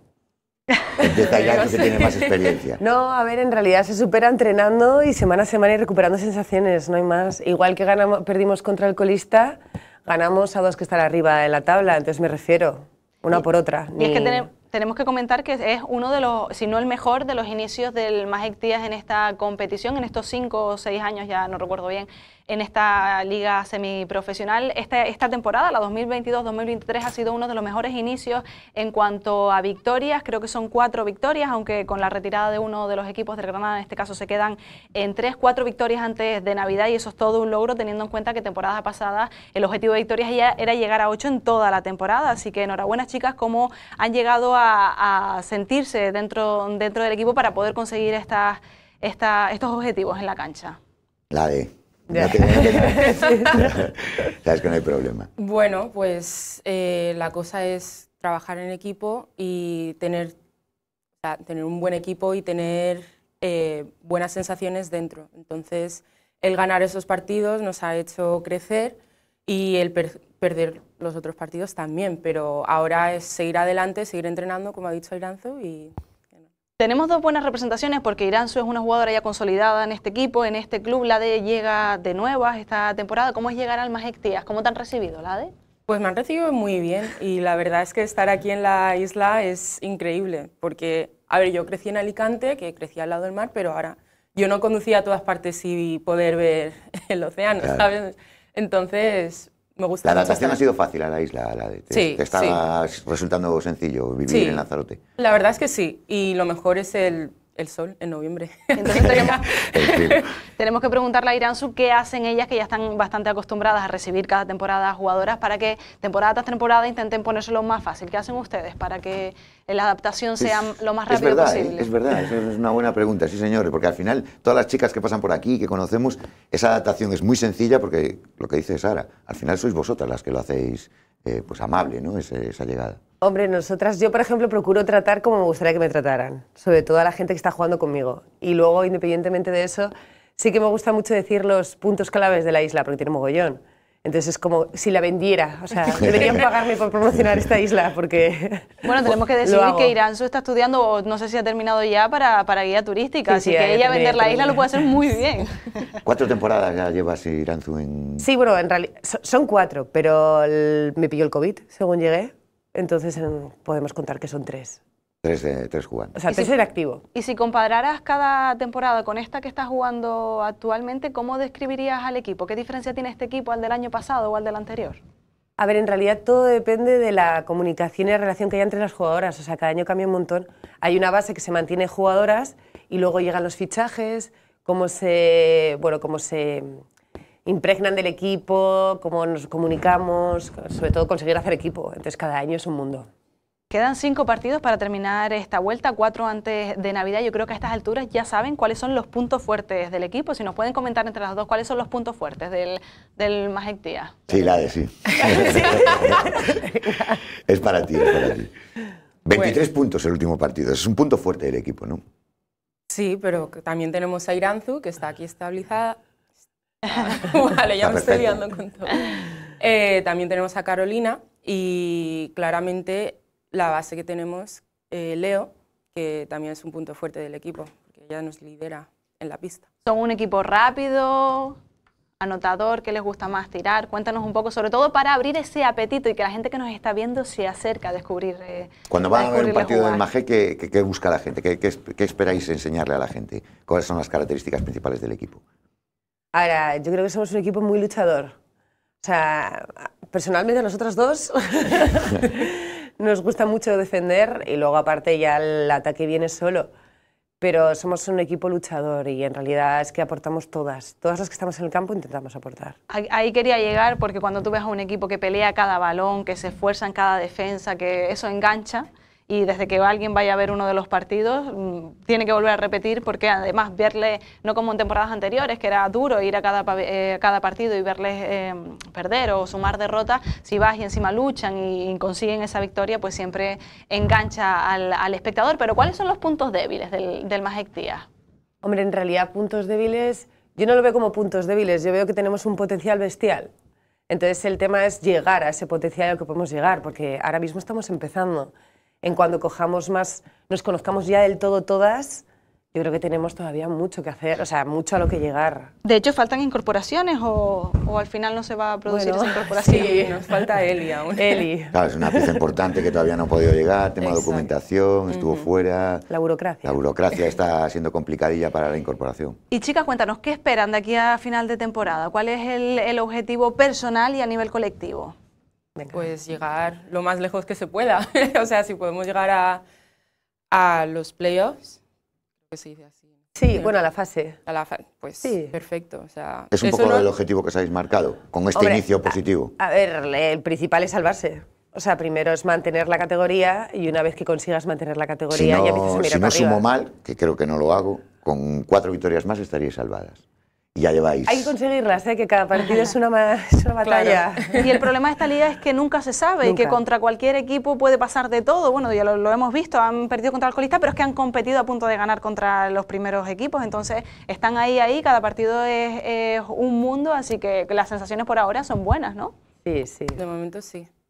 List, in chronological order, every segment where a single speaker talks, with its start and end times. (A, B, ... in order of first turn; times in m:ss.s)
0:01.0-0:02.8 A
0:01.3-0:02.6 B
0:02.8-0:14.6 C
0:14.0-0:50.8 D
0:51.3-0:55.3 A
0:52.1-0:53.8 C
0:55.4-1:00.3 B
1:01.2-1:15.9 B
1:16.8-1:25.5 D
1:25.9-1:40.6 B
1:37.6-1:37.8 A
1:40.0-1:45.0 A
1:41.9-1:42.6 B
1:44.3-1:44.6 B
1:45.2-1:50.3 B
1:48.8-1:49.4 D
1:49.0-1:50.2 A
1:50.6-2:01.9 D
2:00.4-2:13.0 A
2:13.2-2:30.0 C
2:26.0-2:26.4 A
2:28.8-2:36.0 D
2:33.2-2:34.9 C
2:36.0-2:38.2 A
2:38.2-2:44.8 C
2:45.2-2:46.2 A
2:46.1-2:47.0 C
2:47.1-2:55.0 D
2:55.6-3:06.8 C
3:07.4-3:13.1 C
3:13.7-3:24.5 D
3:24.3-3:26.3 A
3:25.3-3:27.2 C
3:27.4-3:28.5 A
3:28.0-3:28.3 C
3:29.2-3:32.0 A
3:29.3-3:29.6 B
3:32.9-3:36.0 B
3:36.8-3:49.7 B
3:37.8-3:38.4 A
3:49.8-3:51.6 D
3:52.2-4:00.0 D
3:58.9-4:05.4 A
4:06.3-4:08.4 C
4:09.0-4:16.7 C
4:17.4-4:22.7 C
4:22.9-4:48.0 D
4:48.6-4:53.5 C
4:54.1-5:05.7 C
5:05.8-5:10.0 D
5:08.9-5:10.4 C
5:09.6-5:11.4 B
5:11.1-5:12.5 C
5:11.7-5:16.1 A
5:14.0-5:14.5 C
5:15.1-5:15.4 B
5:16.1-5:16.8 C
5:16.6-5:19.4 A
5:19.5-5:25.1 D
5:25.8-5:26.1 C
5:25.9-5:29.6 B
5:30.5-5:31.8 B
5:32.5-5:33.7 B
5:33.3-5:34.4 C
5:34.4-5:37.1 B
5:35.2-5:35.6 C
5:36.5-5:39.5 A
5:38.5-5:46.6 C
5:45.3-5:50.2 A
5:50.7-5:51.5 A
5:51.2-5:54.6 C
5:53.8-5:54.7 B
5:54.6-6:09.3 D
5:56.4-5:56.8 C
6:09.6-6:10.2 C
6:10.2-6:10.9 B